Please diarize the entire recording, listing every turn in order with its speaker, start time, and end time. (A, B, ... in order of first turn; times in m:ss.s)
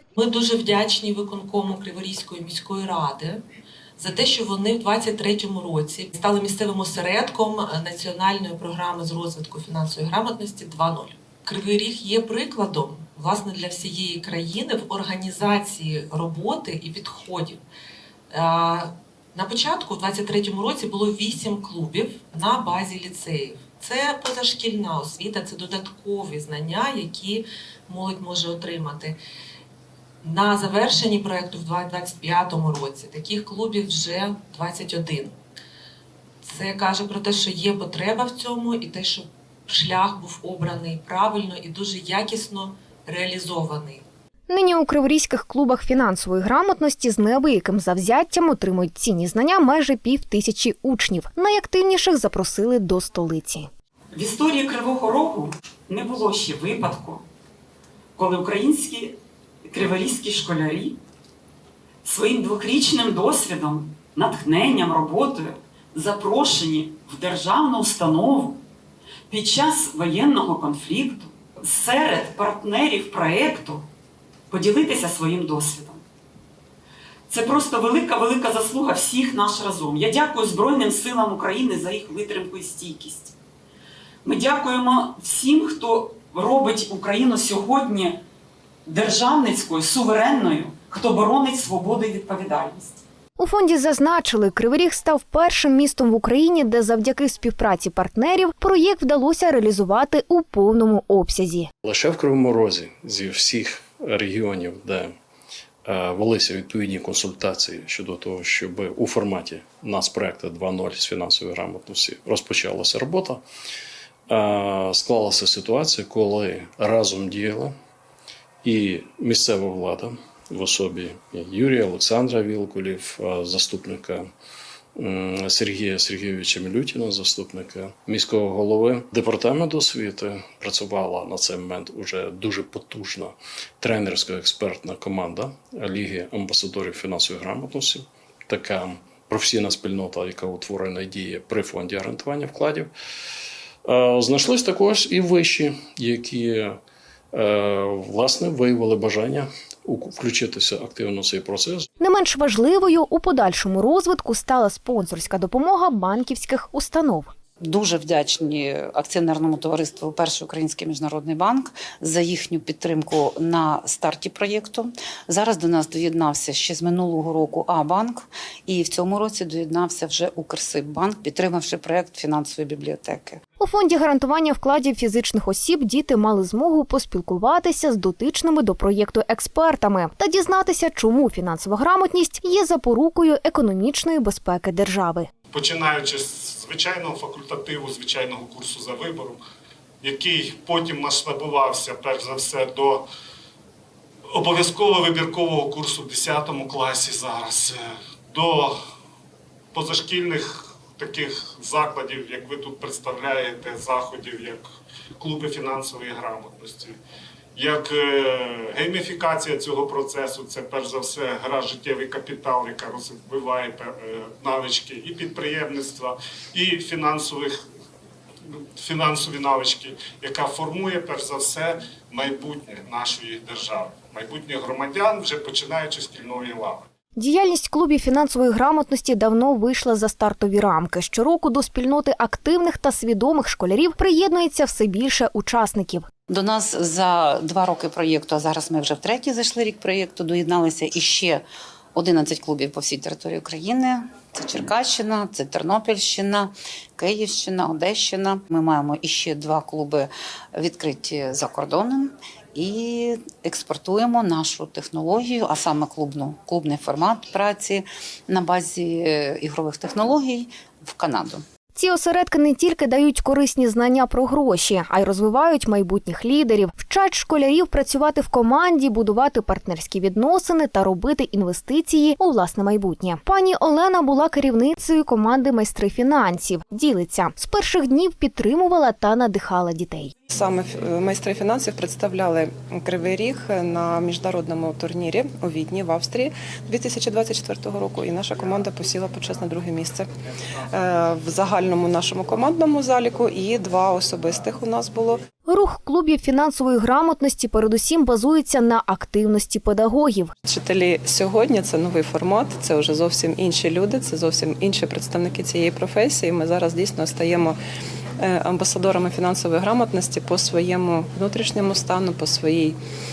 0:00.2-0:03.4 A
0:04.0-0:17.6 A
0:18.3-0:29.2 A
0:30.2-0:35.3 A
0:36.4-0:44.0 A
0:44.5-0:53.7 B
0:54.1-0:57.2 C
0:58.2-0:59.2 C
0:59.7-1:01.0 C
1:02.0-1:08.6 C
1:09.3-1:13.8 C
1:14.5-1:16.0 C
1:17.3-1:23.3 C
1:24.2-1:28.2 C
1:28.8-1:33.0 C
1:33.4-1:41.7 B
1:41.8-1:45.1 D
1:45.8-1:53.4 D
1:54.3-1:57.7 D
1:58.6-2:04.2 D
2:05.0-2:22.9 D
2:23.8-2:26.7 D
2:27.3-2:31.8 D
2:32.0-2:37.3 B
2:37.6-2:53.4 E
2:53.6-3:05.3 B
3:05.5-3:09.4 F
3:10.0-3:13.0 F
3:14.3-3:18.8 F
3:19.7-3:24.6 F
3:25.2-3:27.0 F
3:27.6-3:37.5 F
3:38.8-3:46.8 F
3:47.2-3:56.1 B
3:56.3-4:01.4 E
4:02.0-4:21.4 E
4:21.7-4:40.1 B
4:40.3-4:50.1 G
4:50.7-4:55.2 G
4:55.5-5:00.3 B
5:00.4-5:07.6 G
5:08.2-5:12.8 G